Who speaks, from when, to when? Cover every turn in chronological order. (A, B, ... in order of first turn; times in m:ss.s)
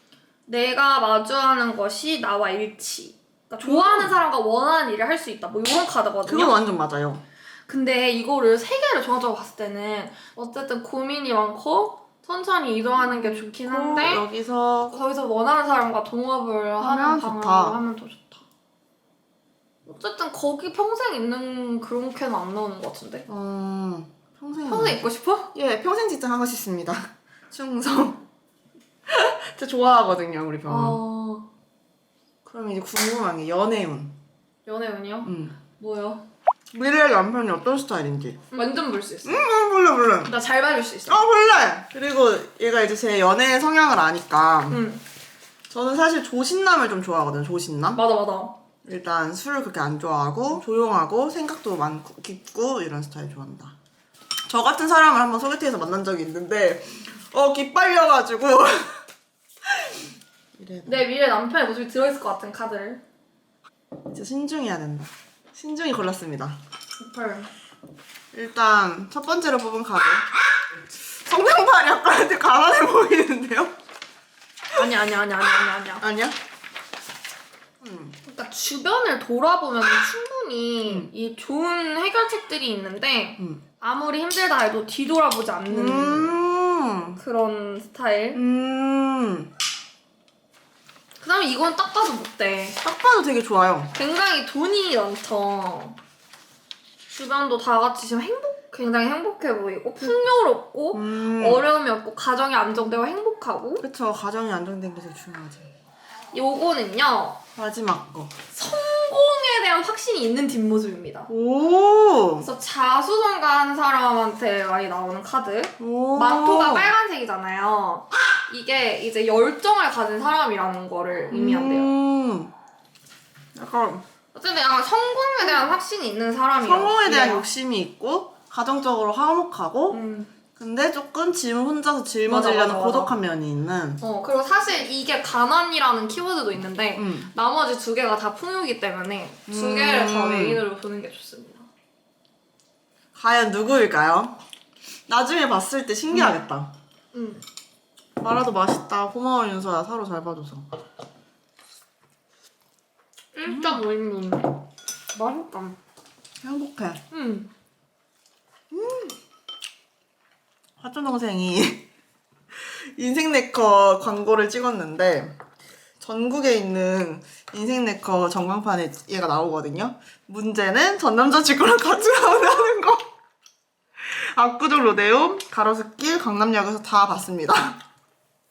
0:00.5-0:06.6 A
0:03.6-0:04.2 B
0:06.3-0:07.2 B
0:07.7-0:14.3 A
0:13.0-0:15.0 B
0:14.9-0:18.4 A
0:16.8-0:17.8 B
0:19.8-0:23.3 A
0:23.3-0:28.2 B
0:24.7-0:25.5 A
0:29.1-0:31.0 B
0:30.7-0:31.5 A
0:32.4-0:34.2 B
0:34.6-0:36.2 A
0:35.2-0:35.6 B
0:36.7-0:38.4 B
0:38.5-0:39.4 A
0:39.2-0:40.3 B
0:40.2-0:41.2 A
0:41.1-0:44.8 B
0:44.7-0:45.0 A
0:45.7-0:48.0 B
0:47.9-0:48.6 A
0:48.8-0:53.8 B
0:54.5-0:59.0 B
0:59.7-1:00.0 B
1:00.6-1:01.0 B
1:00.8-1:03.0 A
1:04.1-1:06.6 B
1:07.0-1:07.5 A
1:08.3-1:10.3 B
1:11.3-1:13.7 B
1:14.7-1:16.0 A
1:16.0-1:16.4 B
1:17.8-1:18.2 B
1:18.2-1:26.4 A
1:20.8-1:21.1 B
1:25.7-1:27.2 B
1:27.2-1:28.4 A
1:28.3-1:29.5 B
1:31.2-1:32.8 A
1:32.8-1:33.9 B
1:33.9-1:36.0 A
1:37.1-1:43.8 A
1:40.9-1:41.7 B
1:43.8-1:45.7 B
1:46.3-1:47.4 A
1:47.6-1:48.4 B
1:48.5-1:51.3 A
1:51.3-1:52.5 B
1:52.4-2:01.9 A
1:55.8-1:56.9 B
2:01.3-2:02.5 B
2:03.6-2:04.0 B
2:04.3-2:07.5 A
2:06.6-2:10.0 B
2:09.9-2:10.3 A
2:10.6-2:14.0 B
2:12.3-2:13.1 A
2:14.0-2:21.7 A
2:17.0-2:17.3 B
2:19.5-2:20.6 B
2:23.1-2:24.4 B
2:25.1-2:26.7 B
2:27.1-2:27.4 A
2:28.2-2:30.7 B
2:33.3-2:34.6 A
2:33.5-2:33.8 B
2:35.1-2:35.8 A
2:36.4-2:37.0 B
2:37.1-2:37.5 A
2:38.7-2:39.2 B
2:40.8-2:41.9 B
2:42.5-2:45.4 B
2:46.0-2:53.1 B
2:54.0-2:57.8 B